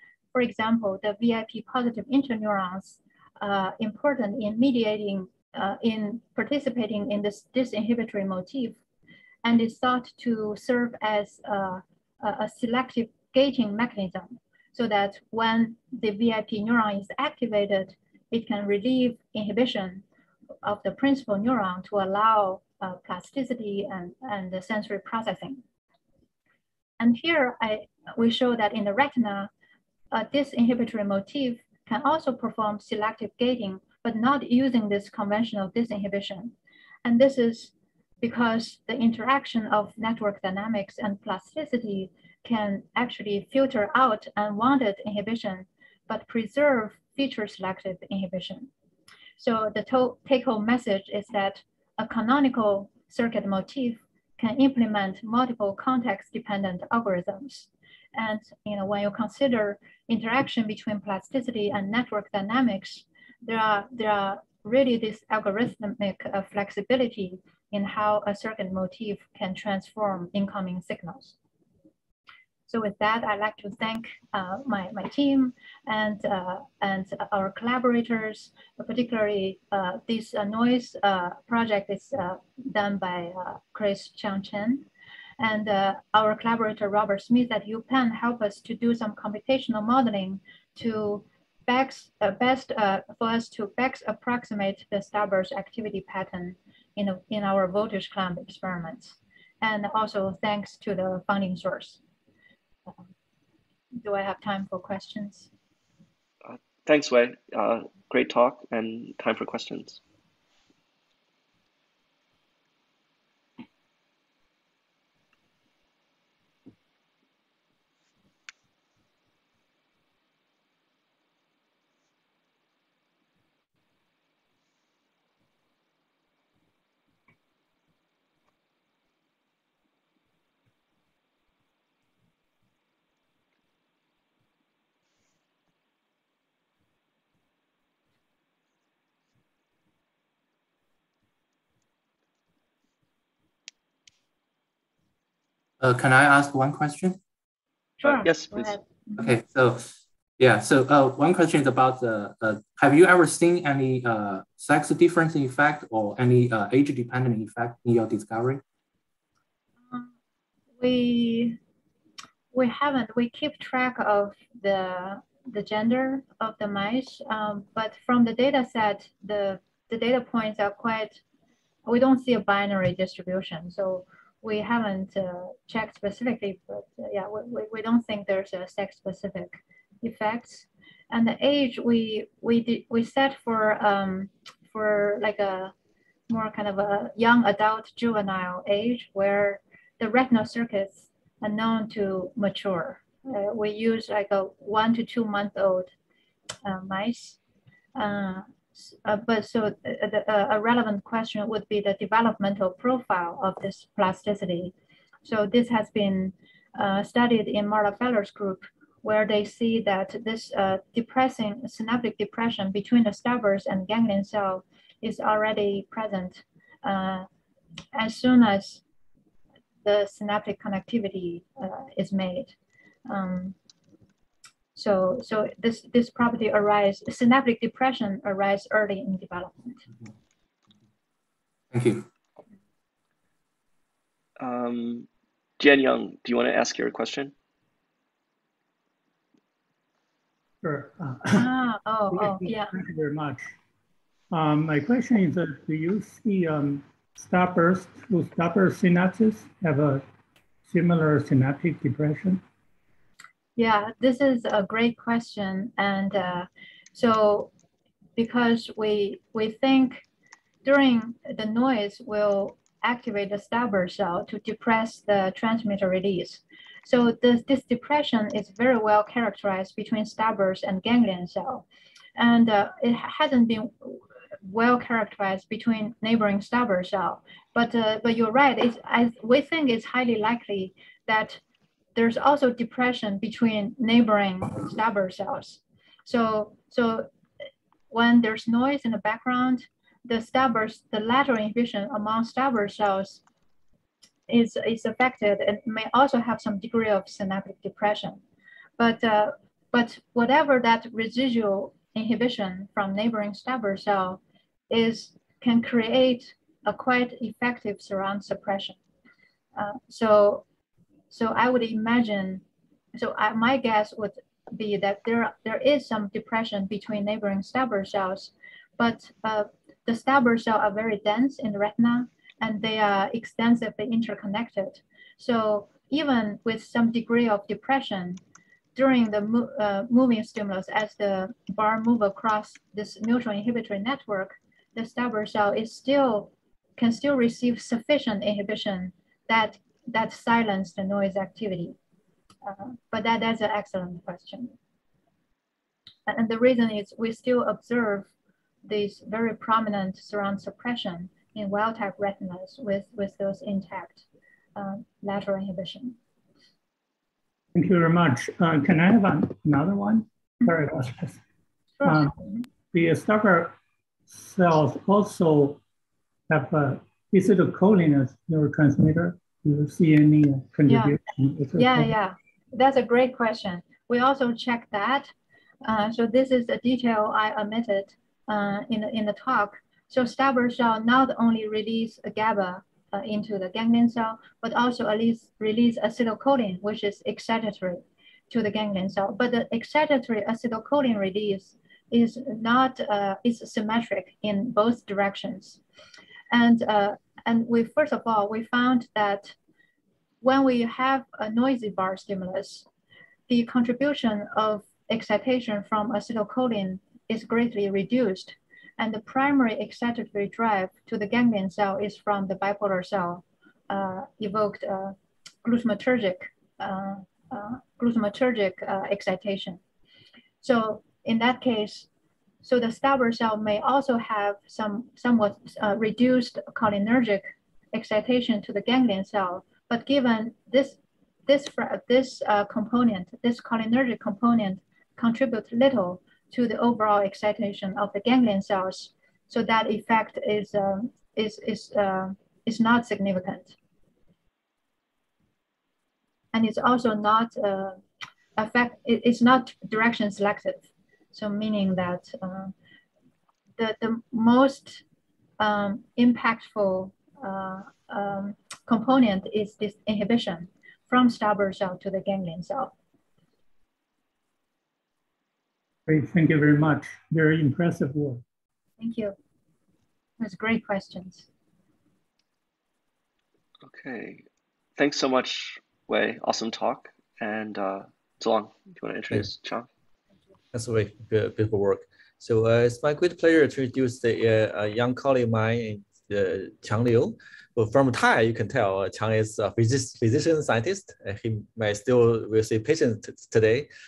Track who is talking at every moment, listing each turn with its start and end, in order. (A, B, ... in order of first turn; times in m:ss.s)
0:00.3-0:08.8 A
0:09.4-0:20.0 A
0:20.6-0:25.6 A
0:27.0-0:29.5 A
0:30.1-0:36.5 A
0:37.0-0:48.7 A
0:49.4-1:11.4 A
1:12.7-1:24.9 A
1:25.4-1:42.0 A
1:44.0-1:45.5 A
1:46.4-1:50.0 B
2:25.8-2:27.2 C
2:28.0-2:29.3 A
2:28.2-2:28.7 B
2:29.2-2:29.8 C
2:30.4-2:38.6 C
2:40.8-2:41.6 A
2:42.5-2:51.2 A
2:51.8-3:05.7 A
3:06.3-3:15.9 A
3:16.6-3:17.4 A
3:18.0-3:24.7 A
3:25.2-3:37.3 A
3:37.9-3:38.8 A
3:39.8-3:42.6 A
3:43.1-3:43.6 A
3:44.8-3:49.8 A
3:51.7-3:52.1 C
3:54.4-3:55.1 B
3:55.6-3:57.3 B
4:00.6-4:01.5 D
4:01.3-4:02.7 A
4:02.1-4:03.5 D
4:04.3-4:10.0 D
4:10.7-4:12.4 D
4:13.6-4:17.5 A
4:18.2-4:20.0 A
4:20.6-4:31.6 A
4:32.2-4:41.4 A
4:42.0-4:47.1 A
4:47.9-4:53.2 A
4:54.3-4:58.2 A
4:58.8-5:08.8 A
5:09.6-5:10.4 A
5:11.1-5:12.4 A
5:13.0-5:28.2 A
5:28.8-5:41.8 A
5:42.4-5:44.6 A
5:46.1-5:48.1 A
5:48.6-5:54.0 A
5:54.6-5:56.0 A
5:57.5-6:01.2 D
6:01.8-6:02.4 A
6:01.8-6:02.2 D
6:02.7-6:03.6 D
6:04.1-6:05.6 D
6:06.3-6:11.9 D
6:10.7-6:11.0 A
6:11.6-6:15.1 A
6:15.6-6:35.6 A
6:36.3-6:39.4 A
6:40.2-6:42.7 A
6:43.3-6:59.6 A
7:00.4-7:01.9 A
7:02.4-7:23.6 A
7:26.3-7:27.8 A
7:28.4-7:32.5 A
7:33.6-7:34.8 A
7:35.4-7:42.7 A
7:45.9-7:48.2 D
7:48.8-7:49.2 A
7:50.2-7:51.3 A
7:53.7-7:54.2 B
7:54.8-7:59.7 B
8:00.5-8:13.7 E